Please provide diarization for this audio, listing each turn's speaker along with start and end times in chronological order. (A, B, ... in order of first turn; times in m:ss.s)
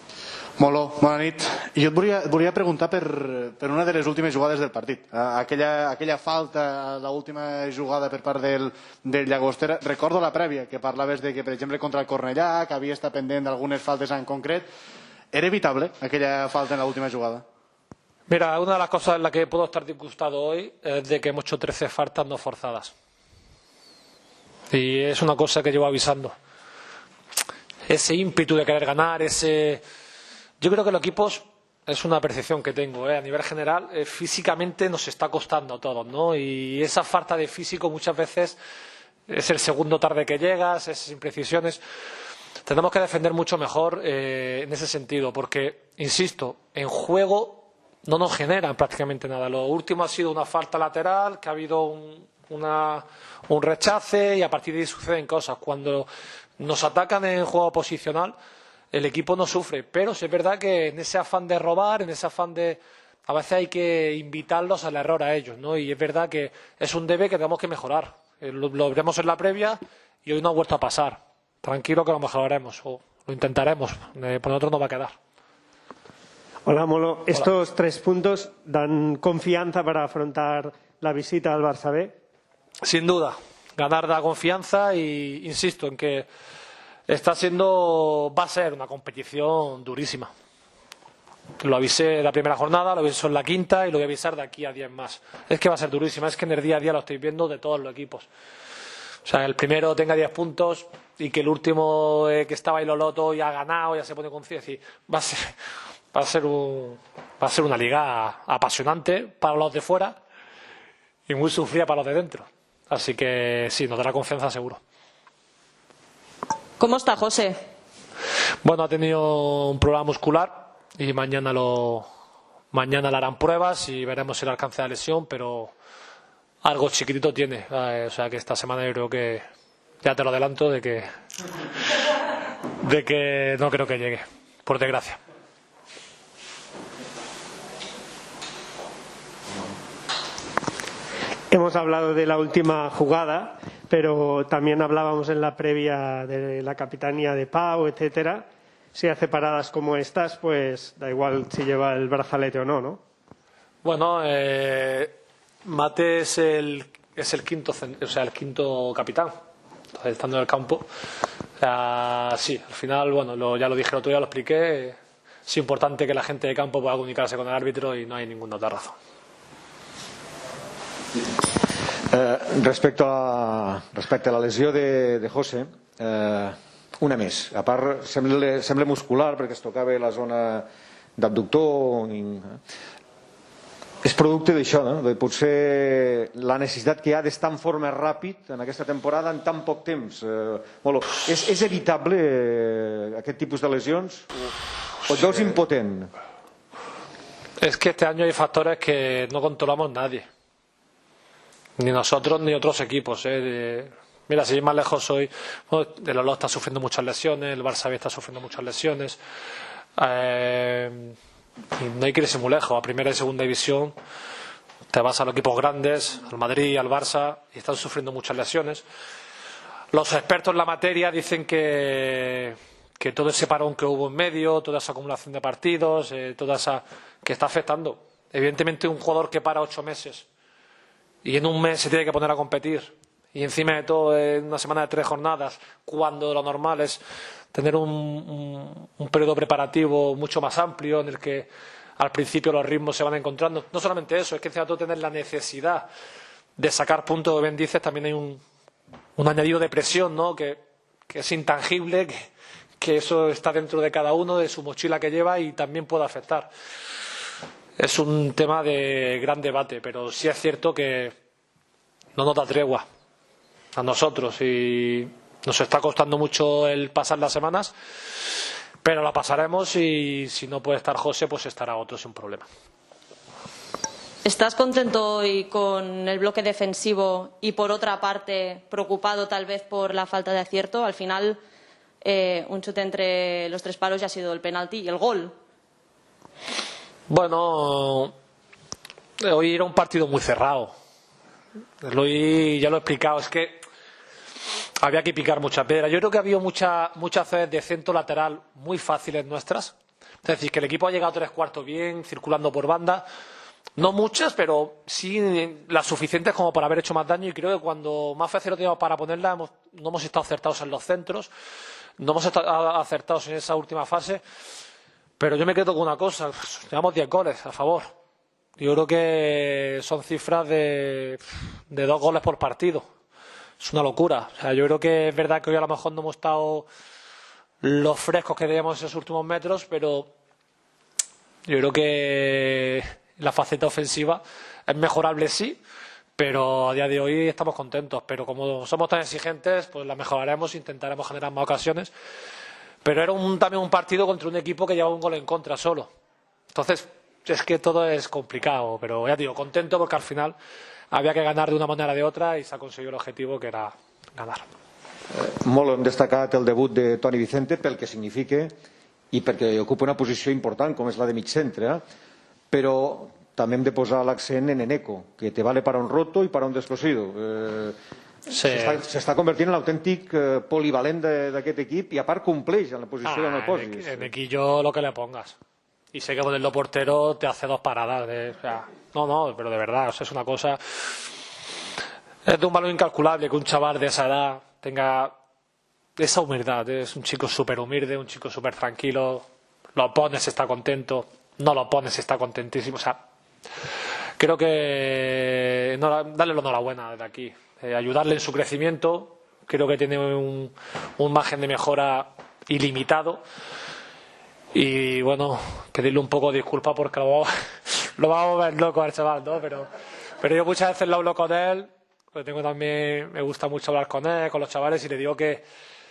0:00.6-0:14.7 A
0:15.3-0:17.4 A
0:18.3-0:22.9 B
0:24.7-0:26.3 B
0:27.9-0:29.8 B
0:30.6-0:38.6 B
0:39.3-0:41.8 B
0:42.7-0:56.1 B
0:56.6-0:58.4 B
0:58.9-1:15.1 B
1:16.6-1:22.1 C
1:22.8-1:26.3 B
1:27.1-1:30.3 B
1:31.6-1:38.3 B
1:39.2-1:45.5 B
1:46.1-1:50.2 B
1:51.3-1:54.8 B
1:56.8-1:57.6 D
1:58.6-2:02.1 B
2:02.7-2:05.7 B
2:06.6-2:09.4 B
2:10.0-2:11.1 B
2:12.8-2:15.2 B
2:21.5-2:33.0 C
2:33.8-2:35.1 B
2:35.6-2:39.3 B
2:39.9-2:40.9 B
2:41.6-2:48.9 B
2:52.1-3:00.7 E
3:01.2-3:02.6 E
3:04.0-3:14.3 E
3:15.1-3:16.1 E
3:15.1-3:15.5 B
3:17.6-3:20.2 B
3:21.8-3:29.2 B
3:30.0-3:31.1 B
3:31.8-3:33.9 B
3:34.9-3:38.8 B
3:39.9-3:50.3 B
3:51.2-3:57.0 B
3:57.5-4:05.9 B
4:06.6-4:08.4 B
4:09.2-4:16.5 B
4:17.8-4:21.1 B
4:22.2-4:22.8 B
4:23.8-4:27.7 B
4:28.8-4:32.5 B
4:34.2-4:41.4 D
4:42.0-4:45.3 D
4:47.1-4:48.1 B
4:49.2-4:50.7 B
4:51.8-4:53.6 B
4:54.8-5:03.0 B
5:03.8-5:11.3 B
5:12.0-5:14.2 B
5:15.2-5:17.9 B
5:18.6-5:22.8 B
5:23.6-5:26.7 B
5:27.6-5:30.1 B
5:31.5-5:35.6 B
5:36.2-5:41.9 B
5:42.8-5:45.9 B
5:46.5-5:50.4 B
5:50.9-5:54.4 B
5:55.1-5:58.5 E
5:59.1-6:01.8 E
6:02.5-6:07.8 E
6:08.3-6:08.8 B
6:08.4-6:14.1 E
6:13.0-6:15.4 B
6:15.9-6:21.0 B
6:22.2-6:25.1 B
6:26.0-6:29.2 B
6:29.8-6:33.0 B
6:34.2-6:43.2 B
6:44.5-6:49.7 B
6:50.2-6:55.4 B